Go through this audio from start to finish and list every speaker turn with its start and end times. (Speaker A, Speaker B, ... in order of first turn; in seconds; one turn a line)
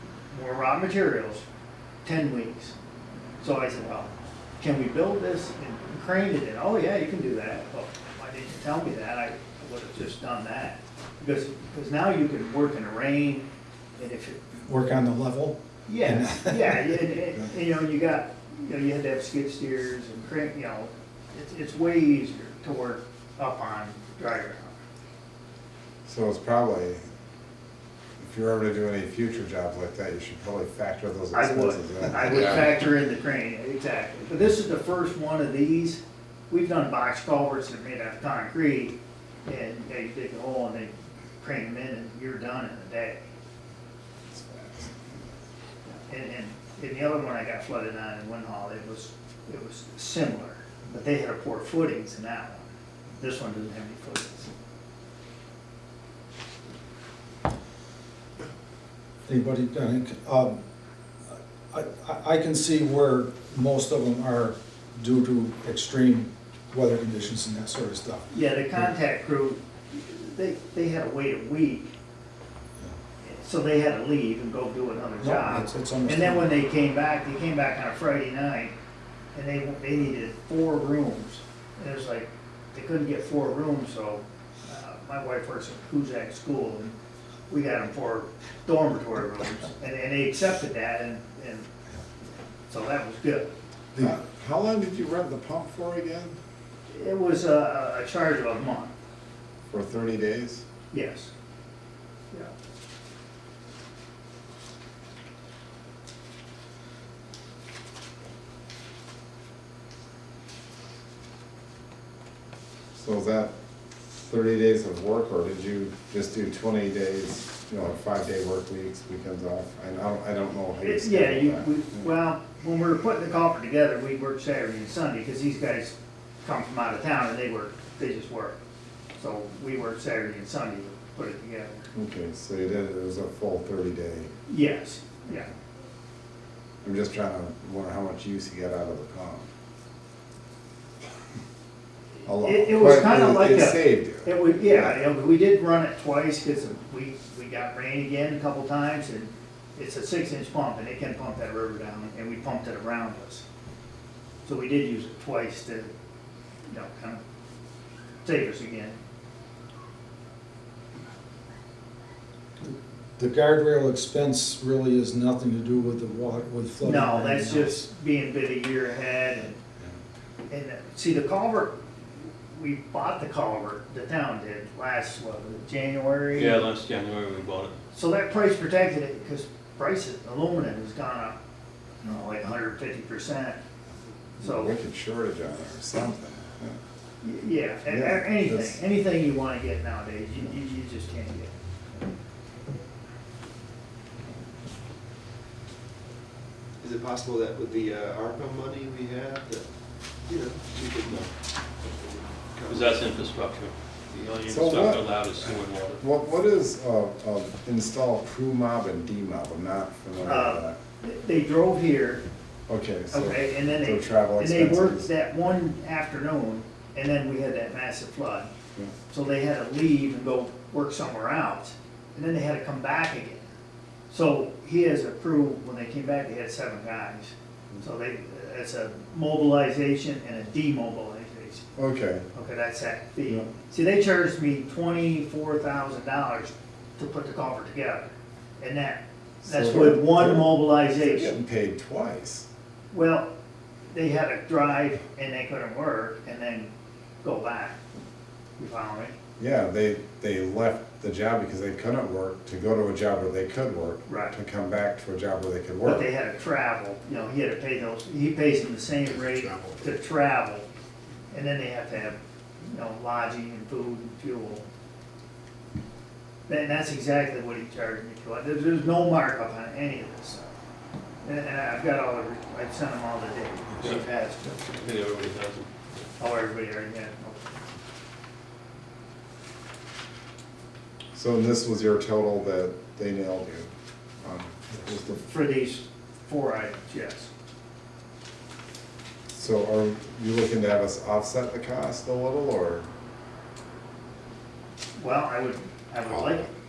Speaker A: 0.3-1.4
Speaker A: 2.0-2.8
Speaker A: 3.4-14.4
Speaker B: 14.6-17.0
Speaker A: 15.9-24.8
Speaker C: 26.1-27.0
Speaker C: 28.2-32.7
Speaker A: 31.3-43.2
Speaker C: 44.3-45.3
Speaker A: 45.8-54.5
Speaker B: 59.3-60.6
Speaker B: 61.3-68.8
Speaker A: 68.3-71.9
Speaker A: 73.2-78.7
Speaker B: 75.2-76.5
Speaker A: 79.3-86.9
Speaker A: 87.5-91.7
Speaker A: 92.7-93.5
Speaker C: 93.9-96.3
Speaker A: 96.9-98.9
Speaker C: 99.7-100.7
Speaker A: 100.9-101.3
Speaker C: 112.9-113.5
Speaker C: 114.2-122.1
Speaker A: 120.8-128.6
Speaker A: 129.2-131.9
Speaker C: 131.9-134.3
Speaker A: 134.5-135.5
Speaker C: 136.8-139.5
Speaker C: 142.2-145.0
Speaker A: 142.4-153.4
Speaker A: 154.4-155.9
Speaker A: 156.7-157.2
Speaker A: 158.2-159.0
Speaker B: 163.2-167.8
Speaker A: 166.8-169.6
Speaker A: 170.5-176.6
Speaker D: 176.3-177.8
Speaker A: 177.9-181.4
Speaker A: 182.0-183.6
Speaker C: 184.4-186.8
Speaker A: 184.4-184.7
Speaker A: 187.2-191.5
Speaker C: 187.9-188.8
Speaker E: 196.8-199.7
Speaker E: 200.2-203.0
Speaker D: 202.7-206.0
Speaker C: 204.5-205.2
Speaker C: 206.0-210.8
Speaker A: 210.2-212.2
Speaker C: 212.7-215.1
Speaker A: 213.1-218.5
Speaker A: 219.1-223.5
Speaker A: 224.1-231.7
Speaker C: 231.8-232.3
Speaker A: 232.3-241.4
Speaker C: 239.4-242.5
Speaker A: 242.9-243.3
Speaker A: 243.9-246.7
Speaker A: 247.2-247.8
Speaker A: 248.6-249.2
Speaker C: 249.4-256.1
Speaker A: 254.1-254.3
Speaker A: 255.8-260.7
Speaker A: 261.3-264.7
Speaker A: 266.5-270.5
Speaker A: 271.2-274.6
Speaker D: 274.7-275.7
Speaker A: 276.2-277.6
Speaker C: 281.1-283.7
Speaker C: 284.2-285.2
Speaker A: 285.1-287.3
Speaker C: 289.3-292.9
Speaker A: 295.0-296.5